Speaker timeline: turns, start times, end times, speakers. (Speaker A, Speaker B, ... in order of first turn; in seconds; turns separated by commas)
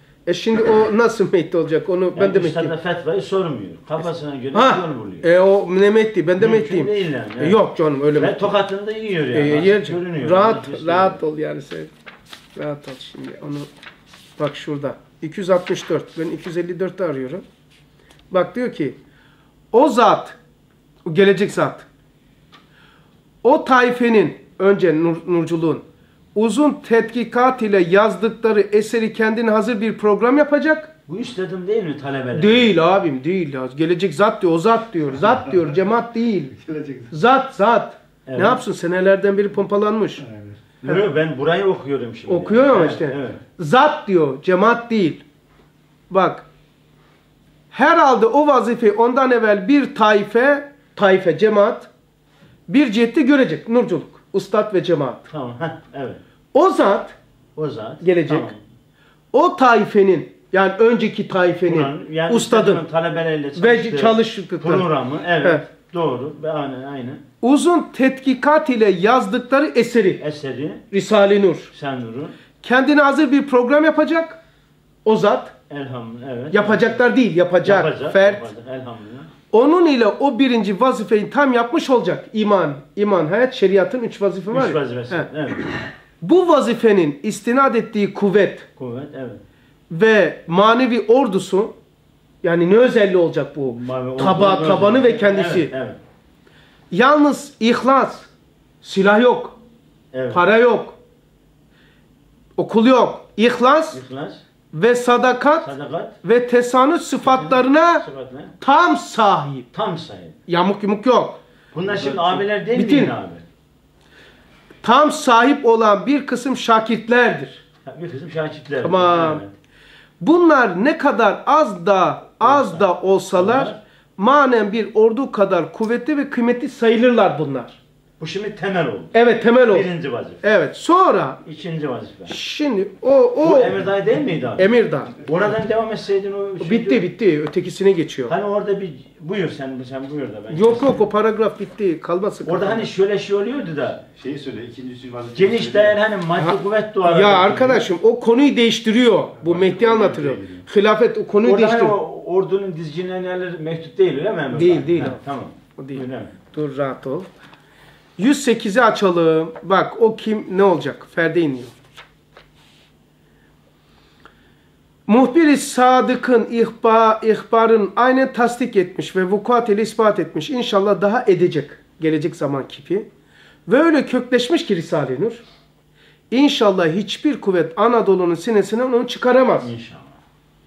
Speaker A: 0.2-2.7, Speaker B: 2.1-5.3, Speaker A: 4.5-8.5, Speaker B: 6.4-7.6, Speaker B: 8.1-11.2, Speaker A: 9.3-11.9, Speaker A: 12.6-13.7, Speaker A: 14.4-17.4, Speaker A: 18.3-19.0, Speaker A: 19.7-20.4, Speaker A: 21.0-21.9, Speaker A: 23.4-30.9, Speaker B: 31.1-32.8, Speaker A: 32.3-36.5, Speaker C: 36.5-37.1, Speaker A: 37.1-40.2, Speaker B: 38.2-38.6, Speaker C: 40.2-40.8, Speaker B: 40.8-43.4, Speaker A: 42.3-45.2, Speaker A: 46.1-46.4, Speaker A: 47.7-51.9, Speaker A: 52.7-55.3, Speaker B: 55.3-56.2, Speaker A: 56.5-57.1, Speaker B: 57.5-58.6, Speaker A: 58.0-58.5, Speaker A: 59.3-62.8, Speaker B: 61.6-67.2, Speaker A: 63.5-64.9, Speaker A: 67.4-70.2, Speaker B: 70.2-70.9, Speaker A: 70.9-71.7, Speaker B: 71.7-72.4, Speaker A: 72.6-74.4, Speaker A: 75.0-75.5, Speaker B: 75.7-77.0, Speaker A: 76.5-78.5, Speaker B: 77.6-79.3, Speaker A: 79.5-85.3, Speaker B: 84.5-85.8, Speaker A: 86.2-88.7, Speaker B: 88.8-89.4, Speaker A: 89.9-91.7, Speaker A: 92.4-95.7, Speaker B: 93.7-96.0, Speaker A: 96.9-98.3, Speaker A: 98.8-99.6, Speaker B: 100.1-100.5, Speaker A: 100.3-101.0, Speaker A: 102.6-104.0, Speaker B: 103.9-104.4, Speaker A: 104.7-105.7, Speaker B: 105.6-106.2, Speaker A: 106.2-108.0, Speaker B: 107.2-108.5, Speaker A: 108.6-109.7, Speaker B: 109.7-110.4, Speaker A: 110.5-111.4, Speaker B: 111.7-113.4, Speaker A: 112.1-113.1, Speaker A: 114.8-117.6, Speaker B: 117.8-119.5, Speaker A: 118.8-119.4, Speaker A: 120.2-127.8, Speaker B: 122.4-123.8, Speaker B: 128.2-130.5, Speaker A: 129.1-129.9, Speaker A: 130.4-131.4, Speaker B: 131.4-132.3, Speaker A: 132.3-133.8, Speaker B: 133.4-137.1, Speaker A: 134.6-135.1, Speaker A: 136.6-138.3, Speaker B: 138.3-141.1, Speaker A: 140.5-142.9, Speaker B: 142.4-144.1, Speaker C: 144.2-146.0, Speaker B: 145.3-147.9, Speaker A: 146.4-152.0, Speaker C: 149.4-150.7, Speaker B: 151.4-156.3, Speaker A: 154.5-155.2, Speaker A: 155.8-157.3, Speaker A: 158.2-161.8, Speaker A: 165.1-173.1, Speaker A: 173.7-175.4, Speaker A: 176.3-179.7, Speaker B: 179.6-180.2